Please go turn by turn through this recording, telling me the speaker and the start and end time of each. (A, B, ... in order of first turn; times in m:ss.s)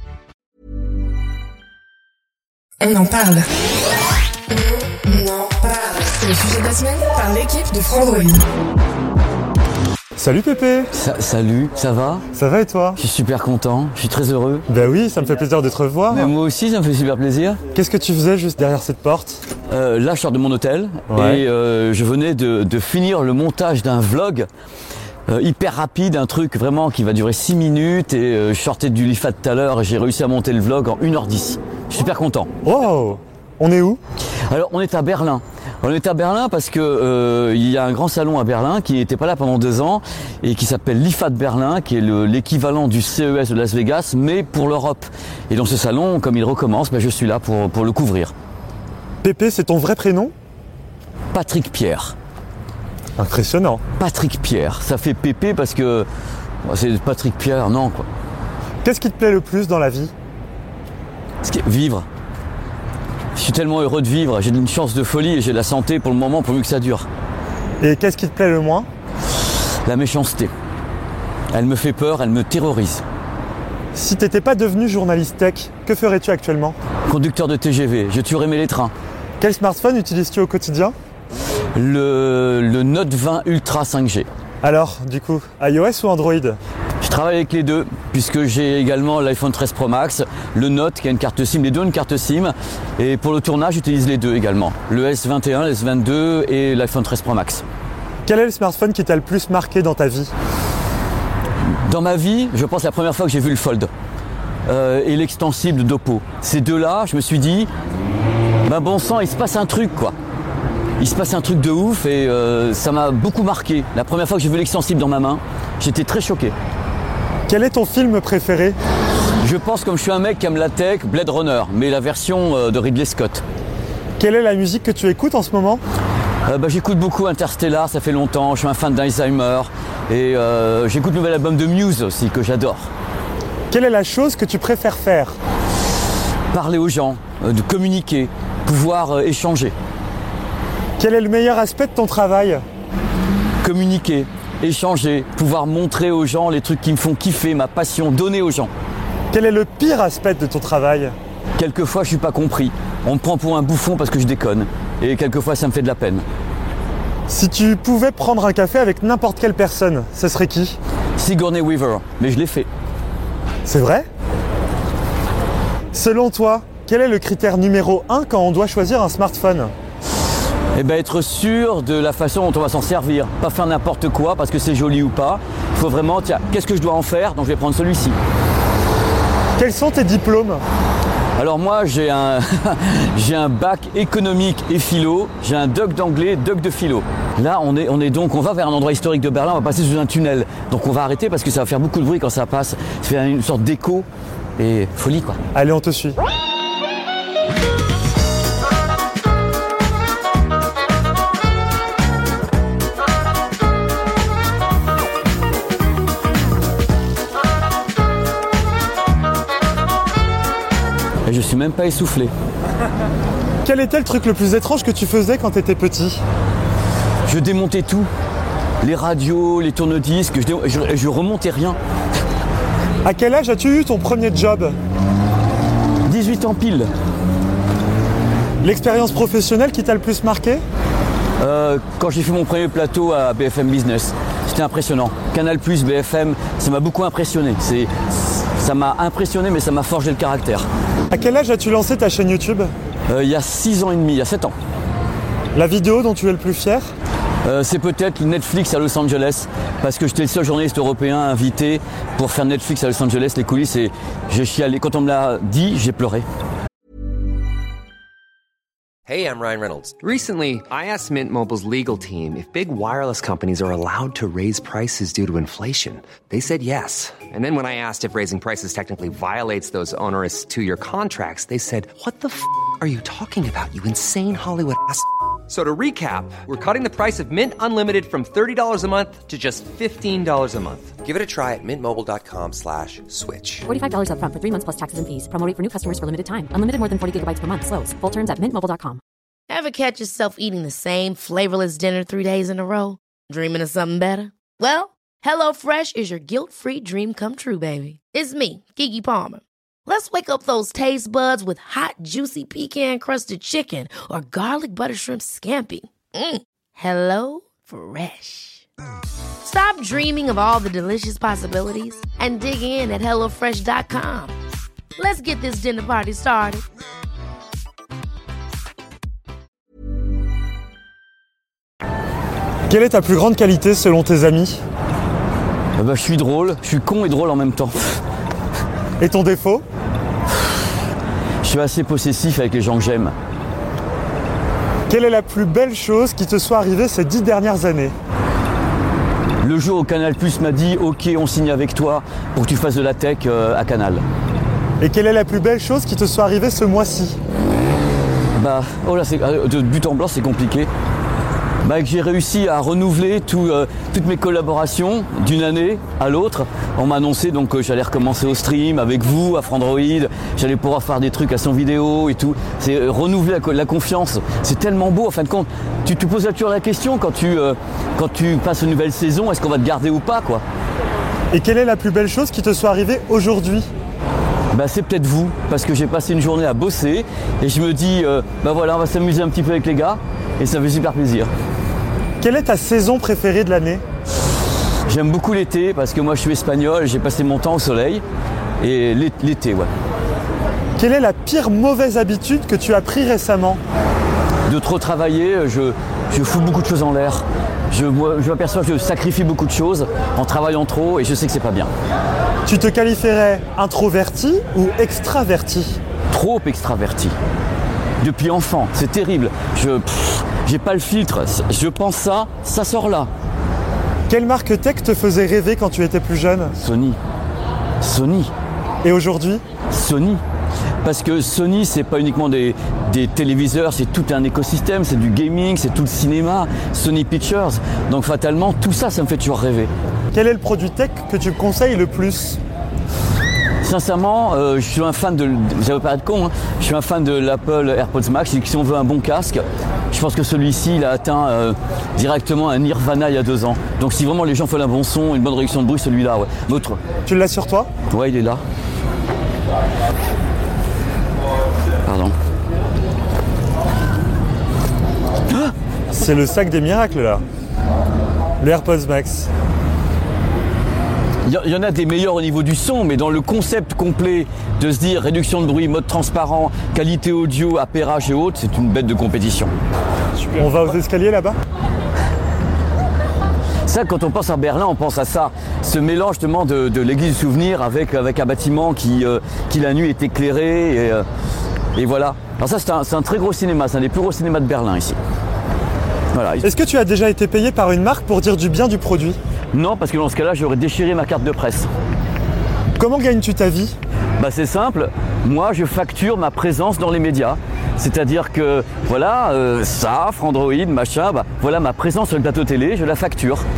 0:02.8-0:03.4 A
0:04.6-0:08.4 A
0:10.2-0:10.9 B
0:10.9-0:12.2 C
0:12.3-0:13.0 B
0:13.0-0:14.6 C
0:14.7-0:16.3 B
0:16.1-0:17.6 C
0:17.7-0:19.4 B
0:19.7-0:24.5 C
0:21.1-0:21.4 B
0:25.3-0:32.5 C
0:32.6-0:34.0 B
0:34.5-0:48.3 C
0:49.2-0:50.3 B
0:51.3-0:52.1 C
0:53.2-0:53.8 B
0:54.0-0:56.1 C
0:56.6-0:58.1 C
0:58.8-1:00.1 B
1:01.4-1:02.0 C
1:03.3-1:07.1 C
1:07.8-1:08.9 B
1:09.8-1:10.5 C
1:11.5-1:13.0 C
1:13.9-1:16.8 B
1:17.1-1:18.9 C
1:19.4-1:20.9 B
1:21.7-1:24.3 C
1:24.6-1:26.6 B
1:27.0-1:37.6 C
1:38.2-1:40.3 B
1:41.8-1:43.9 C
1:44.7-1:47.7 C
1:48.6-1:50.1 C
1:51.0-1:56.5 C
1:57.5-1:58.8 B
1:59.4-2:03.4 C
2:04.2-2:05.8 B
2:06.4-2:12.9 C
2:13.7-2:15.4 B
2:16.5-2:19.7 C
2:21.0-2:22.6 B
2:23.6-2:28.7 C
2:29.3-2:31.1 B
2:31.6-2:36.2 C
2:37.3-2:40.8 B
2:41.2-2:42.7 C
2:43.6-2:44.0 B
2:45.9-2:49.7 B
2:50.7-2:58.1 C
2:59.6-3:00.6 B
3:01.4-3:14.0 C
3:14.6-3:15.4 C
3:15.5-3:16.2 B
3:31.2-3:32.3 C
3:33.6-3:36.2 B
3:37.3-3:38.1 C
3:38.8-3:41.8 C
3:43.0-3:44.8 B
3:46.0-3:46.9 C
3:48.6-3:50.6 B
3:51.4-4:00.7 C
4:01.1-4:02.7 B
4:03.1-4:04.5 C
4:05.5-4:06.9 B
4:07.4-4:16.2 C
4:19.1-4:43.7 D
4:43.7-4:49.0 E
4:49.5-5:08.6 F
5:09.4-5:14.3 F
5:15.0-5:16.6 F
5:22.7-5:24.6 B
5:25.8-5:28.0 C
5:29.0-5:29.6 B
5:31.4-5:33.1 C
5:34.9-5:37.9 B
5:39.4-5:44.0 C
5:44.8-5:47.2 B
5:48.4-5:50.7 C
5:51.6-6:10.4 C
6:11.3-6:13.7 B
6:14.5-6:21.3 C
6:22.2-6:23.8 B
6:24.9-6:28.0 C
6:28.6-6:29.7 C
6:30.8-6:33.6 B
6:34.5-6:41.7 C
6:42.4-6:45.8 B
6:46.1-6:47.1 C
6:48.0-6:53.1 C
6:54.1-6:56.5 B
6:56.6-6:57.0 C
6:57.8-6:58.3 C
6:58.8-6:59.4 B
6:59.7-7:00.2 C
7:00.8-7:09.7 C
7:10.1-7:12.4 B
7:13.6-7:26.8 C
7:27.0-7:27.7 B
7:27.9-7:28.4 C
7:31.8-7:32.1 C
7:35.9-7:37.2 B
7:38.4-7:39.3 B
7:41.2-7:49.5 C
7:50.2-7:51.4 B
7:53.6-8:01.0 C
8:01.7-8:05.0 C
8:06.1-8:06.5 C
8:06.4-8:09.2 B
8:09.5-8:11.7 C
8:12.8-8:13.7 B
8:14.2-8:23.4 C